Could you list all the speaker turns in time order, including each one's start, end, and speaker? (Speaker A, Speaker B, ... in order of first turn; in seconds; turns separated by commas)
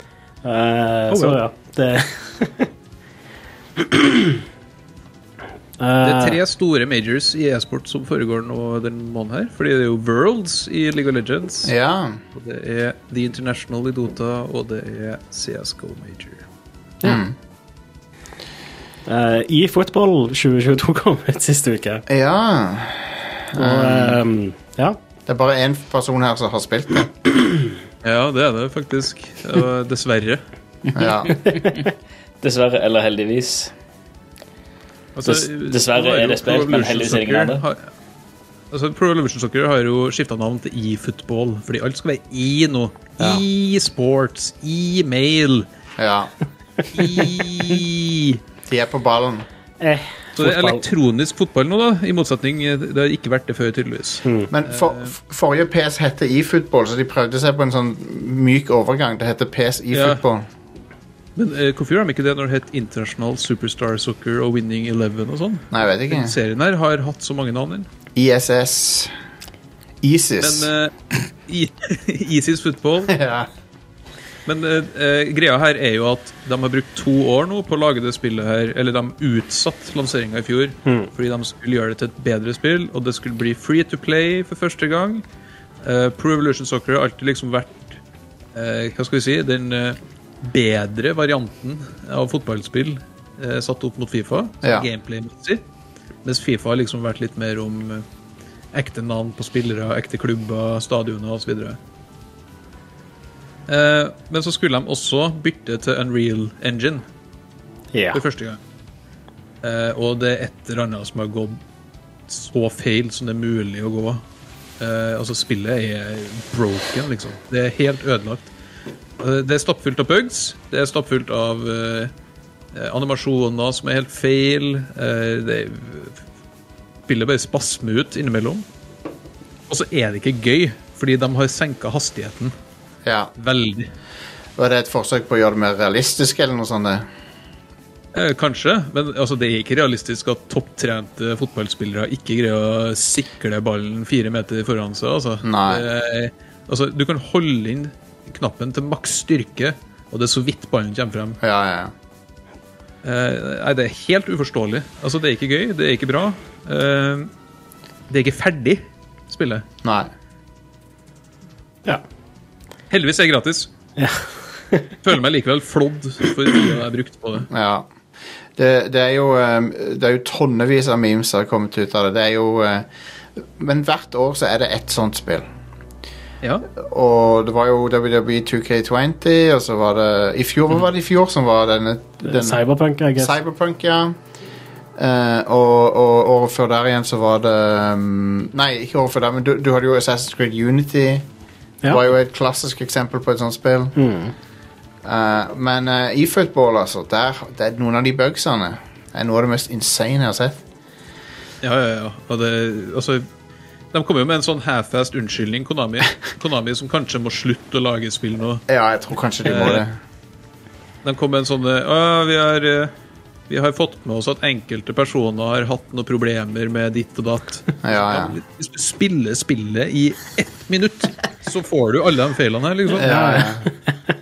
Speaker A: 0.4-2.7, Speaker B: 1.1-1.4, Speaker A: 3.8-4.4, Speaker A: 5.8-6.4, Speaker B: 6.0-11.7, Speaker C: 11.6-12.2, Speaker B: 12.3-16.4, Speaker C: 17.0-17.3, Speaker A: 19.1-22.0, Speaker C: 22.1-24.2, Speaker A: 23.5-25.0, Speaker C: 25.3-27.1, Speaker B: 28.0-30.4, Speaker C: 30.9-31.4, Speaker D: 31.0-31.9, Speaker D: 32.4-33.7, Speaker B: 35.1-37.9, Speaker D: 35.2-37.6, Speaker B: 38.7-45.7, Speaker C: 46.0-46.3, Speaker B: 46.9-48.4, Speaker C: 48.7-49.5, Speaker A: 49.8-50.8, Speaker B: 50.4-55.1, Speaker A: 54.2-54.5, Speaker C: 54.5-60.4, Speaker B: 59.9-60.2, Speaker B: 61.4-67.9, Speaker C: 65.7-66.3, Speaker C: 68.2-69.1, Speaker C: 70.0-70.7, Speaker B: 70.4-70.9, Speaker B: 71.5-73.1, Speaker C: 73.1-73.5, Speaker B: 74.5-85.2, Speaker B: 85.8-88.0, Speaker B: 88.5-95.6, Speaker B: 96.2-98.0, Speaker B: 98.7-101.8, Speaker B: 103.7-107.0, Speaker A: 107.9-108.2, Speaker B: 108.1-108.6, Speaker B: 109.6-111.6, Speaker B: 112.3-114.2, Speaker B: 114.8-118.5, Speaker B: 119.2-122.1, Speaker B: 122.7-126.2, Speaker B: 127.1-128.6, Speaker B: 129.7-132.5, Speaker C: 133.0-133.3, Speaker B: 133.4-133.9, Speaker C: 134.6-137.0, Speaker B: 138.1-151.4, Speaker C: 145.4-145.8, Speaker C: 151.4-151.9, Speaker B: 153.0-157.3, Speaker B: 158.1-159.6, Speaker C: 159.8-160.1, Speaker B: 162.9-163.7, Speaker B: 165.0-167.5, Speaker C: 167.5-167.9, Speaker C: 168.6-175.4, Speaker C: 176.8-182.6, Speaker A: 182.2-183.3, Speaker C: 183.2-184.2, Speaker C: 185.0-191.2, Speaker C: 191.8-193.9, Speaker A: 193.9-194.3, Speaker C: 195.0-200.6, Speaker B: 201.6-203.3, Speaker B: 203.9-208.6, Speaker C: 208.7-209.9, Speaker B: 209.4-209.8, Speaker B: 211.0-212.9, Speaker B: 213.5-223.4, Speaker C: 217.8-218.3, Speaker C: 222.9-223.7, Speaker A: 223.0-223.5